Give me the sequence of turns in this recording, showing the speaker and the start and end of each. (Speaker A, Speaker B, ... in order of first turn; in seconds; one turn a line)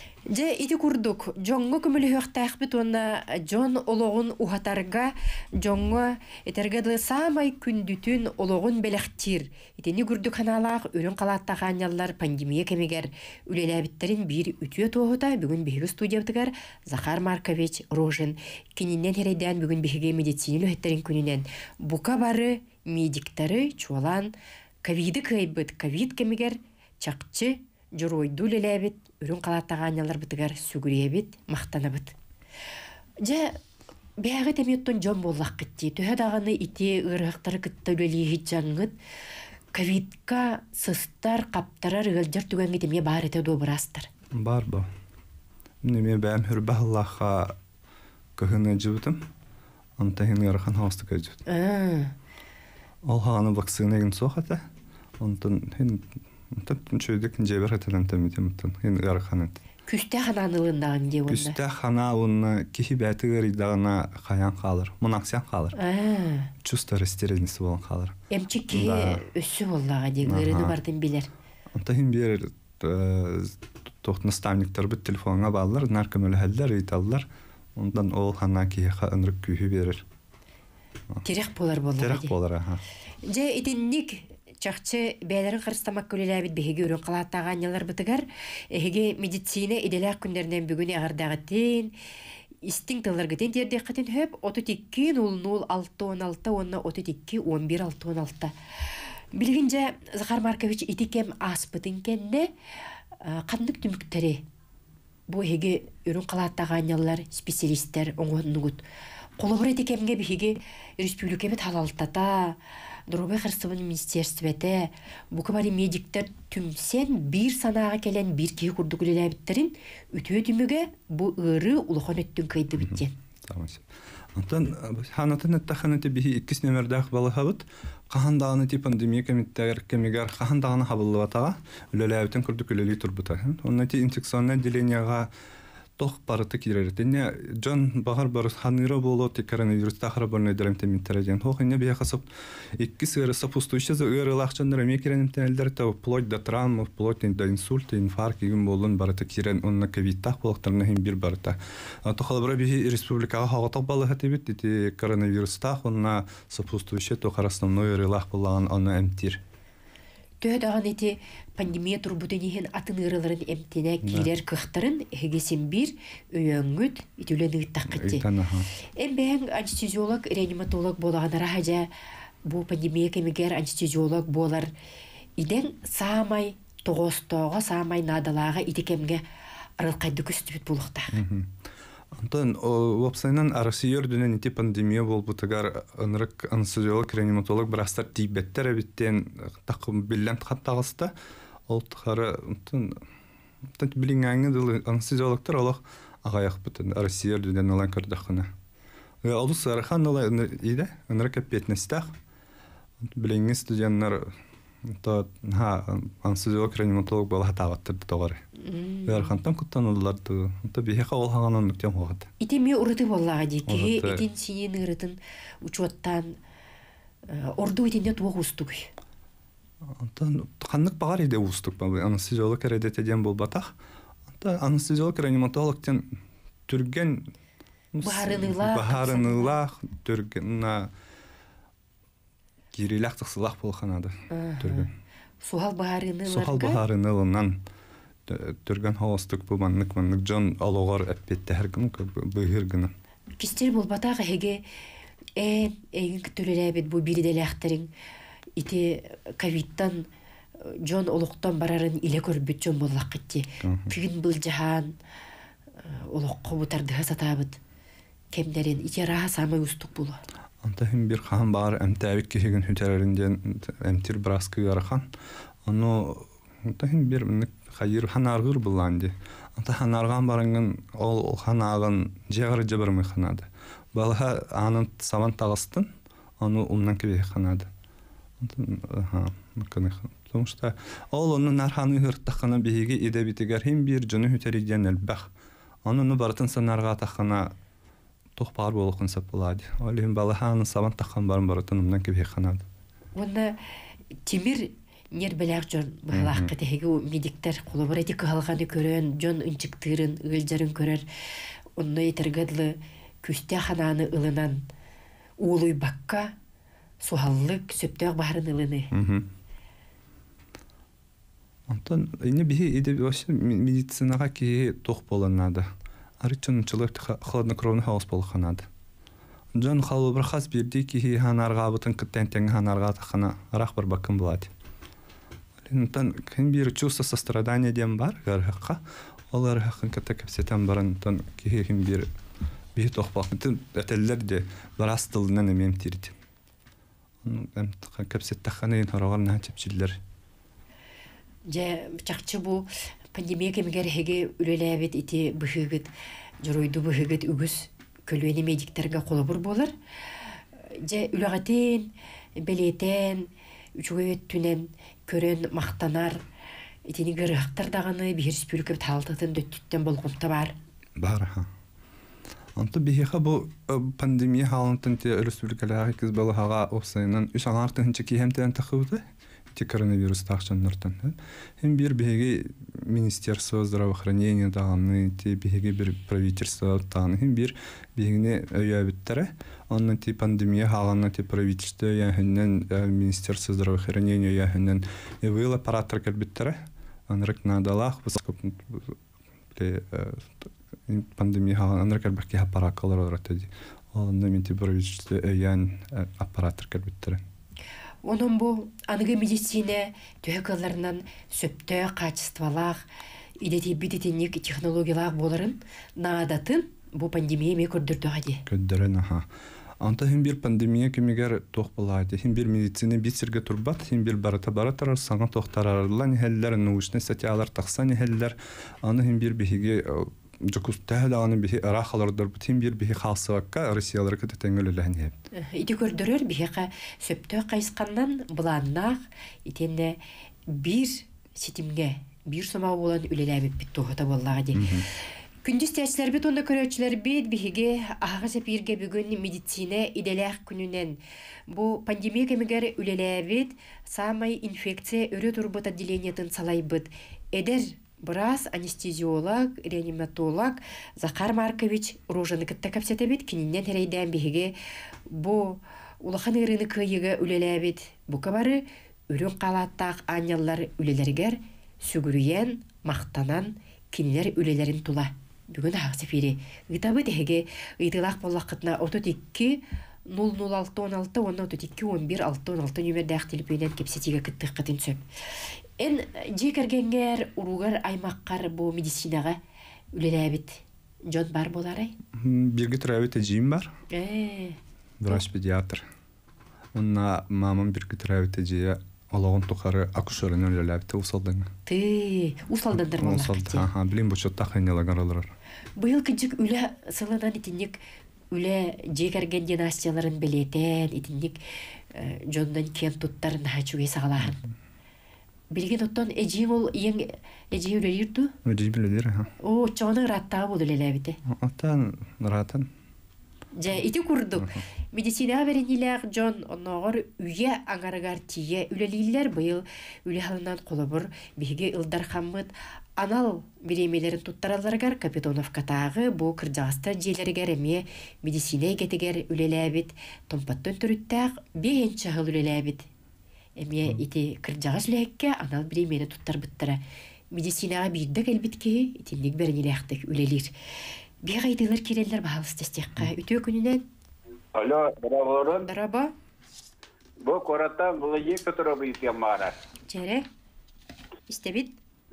Speaker A: 0.3-32.1
Speaker A: 33.2-33.6
Speaker A: 34.2-39.0
Speaker A: 39.7-44.1
Speaker B: 44.3-44.9
Speaker B: 45.8-47.6
Speaker B: 48.4-49.3
Speaker B: 50.0-51.4
Speaker A: 51.5-52.1
Speaker B: 53.0-54.7
Speaker B: 55.2-59.6
Speaker A: 59.9-61.6
Speaker B: 61.3-65.8
Speaker A: 65.8-66.5
Speaker B: 66.6-68.2
Speaker A: 68.3-71.3
Speaker B: 68.7-69.2
Speaker B: 70.2-70.8
Speaker B: 71.7-80.0
Speaker A: 81.2-82.3
Speaker B: 82.0-82.8
Speaker A: 83.3-92.0
Speaker A: 92.6-98.5
Speaker A: 99.3-102.5
Speaker A: 103.2-104.4
Speaker A: 105.3-108.8
Speaker A: 109.4-112.6
Speaker A: 113.1-123.1
Speaker B: 122.8-135.3
Speaker B: 136.0-159.4
Speaker A: 160.4-168.3
Speaker B: 164.0-164.3
Speaker B: 167.9-168.7
Speaker A: 169.0-171.9
Speaker A: 172.4-174.7
Speaker A: 175.4-179.2
Speaker A: 179.8-181.2
Speaker B: 181.1-181.6
Speaker B: 182.1-191.1
Speaker B: 191.7-193.0
Speaker B: 193.8-198.5
Speaker B: 199.2-202.1
Speaker B: 203.0-208.4
Speaker A: 208.6-209.3
Speaker B: 209.1-212.3
Speaker A: 212.4-216.3
Speaker B: 213.7-214.2
Speaker A: 217.3-218.9
Speaker B: 219.9-223.7
Speaker B: 224.3-226.1
Speaker B: 226.7-227.3
Speaker B: 227.9-230.9
Speaker A: 228.0-229.5
Speaker B: 232.7-234.9
Speaker A: 234.3-234.9
Speaker A: 235.4-236.8
Speaker B: 236.3-237.6
Speaker B: 238.3-242.9
Speaker A: 243.4-244.6
Speaker A: 245.4-247.9
Speaker A: 248.6-250.1
Speaker A: 250.6-255.0
Speaker B: 253.6-253.9
Speaker A: 255.8-257.6
Speaker A: 258.3-260.2
Speaker B: 260.6-265.1
Speaker B: 265.7-277.7
Speaker B: 278.4-285.3
Speaker B: 285.9-287.5
Speaker B: 288.4-292.6
Speaker A: 293.1-293.6
Speaker A: 294.3-301.1
Speaker B: 296.1-296.5
Speaker A: 301.8-304.6
Speaker A: 305.4-306.4
Speaker A: 307.0-308.9
Speaker B: 308.9-309.3
Speaker B: 311.7-315.7
Speaker B: 316.2-318.7
Speaker B: 319.6-324.5
Speaker B: 325.6-332.1
Speaker B: 332.8-336.2
Speaker B: 337.2-340.0
Speaker A: 341.5-349.7
Speaker A: 350.7-356.2
Speaker A: 356.9-360.6
Speaker B: 361.0-361.5
Speaker B: 362.6-389.0
Speaker B: 389.5-397.2
Speaker A: 398.0-402.9
Speaker A: 403.4-408.4
Speaker B: 408.5-409.3
Speaker B: 409.8-425.1
Speaker A: 425.3-434.8
Speaker B: 434.6-434.9
Speaker A: 435.4-454.5
Speaker A: 455.1-479.4
Speaker A: 479.9-481.9
Speaker B: 482.1-483.7
Speaker A: 483.9-484.6
Speaker B: 485.0-485.9
Speaker B: 486.7-491.5
Speaker A: 491.7-493.7
Speaker B: 492.9-495.3
Speaker A: 495.8-497.8
Speaker A: 498.3-501.4
Speaker A: 501.9-504.4
Speaker A: 505.5-508.4
Speaker B: 508.4-509.3
Speaker A: 509.4-511.2
Speaker B: 511.2-512.7
Speaker A: 513.5-532.9
Speaker A: 533.6-540.5
Speaker A: 541.2-543.9
Speaker C: 544.5-545.7
Speaker A: 545.6-546.1
Speaker C: 547.2-549.6
Speaker A: 549.9-550.3
Speaker A: 551.3-551.8